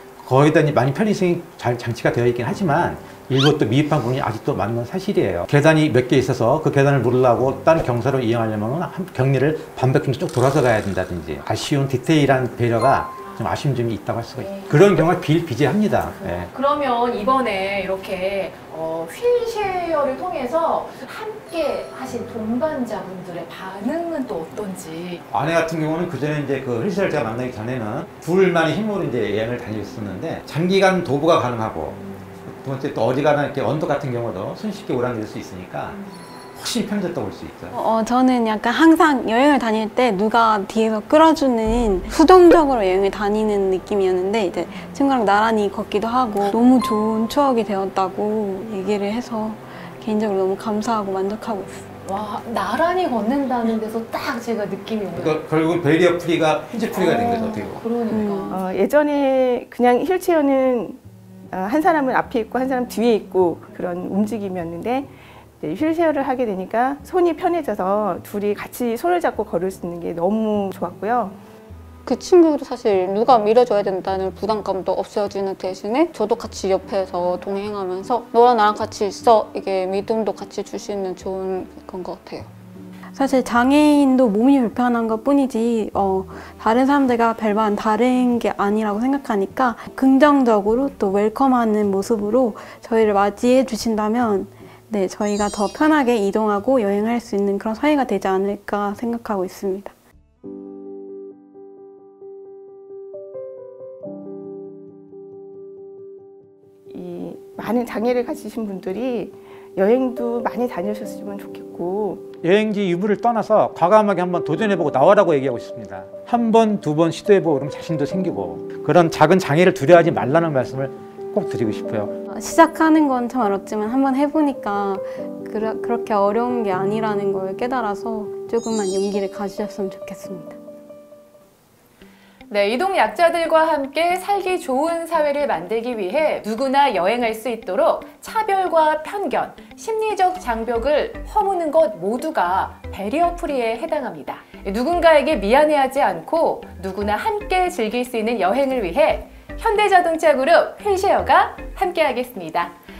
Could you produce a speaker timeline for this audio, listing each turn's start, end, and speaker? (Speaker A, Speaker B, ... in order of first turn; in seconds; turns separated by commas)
Speaker A: 0.2-16.5, Speaker B: 14.4-14.9, Speaker B: 16.0-25.2, Speaker A: 25.3-36.0, Speaker A: 36.5-37.8, Speaker C: 37.7-51.8, Speaker B: 52.0-55.4, Speaker A: 55.1-57.8, Speaker B: 56.9-58.6, Speaker C: 58.1-58.6, Speaker D: 58.5-61.0, Speaker D: 61.5-71.4, Speaker E: 72.1-82.5, Speaker C: 83.1-99.9, Speaker D: 106.9-112.3, Speaker A: 112.4-122.1, Speaker C: 122.3-130.6, Speaker B: 132.5-152.8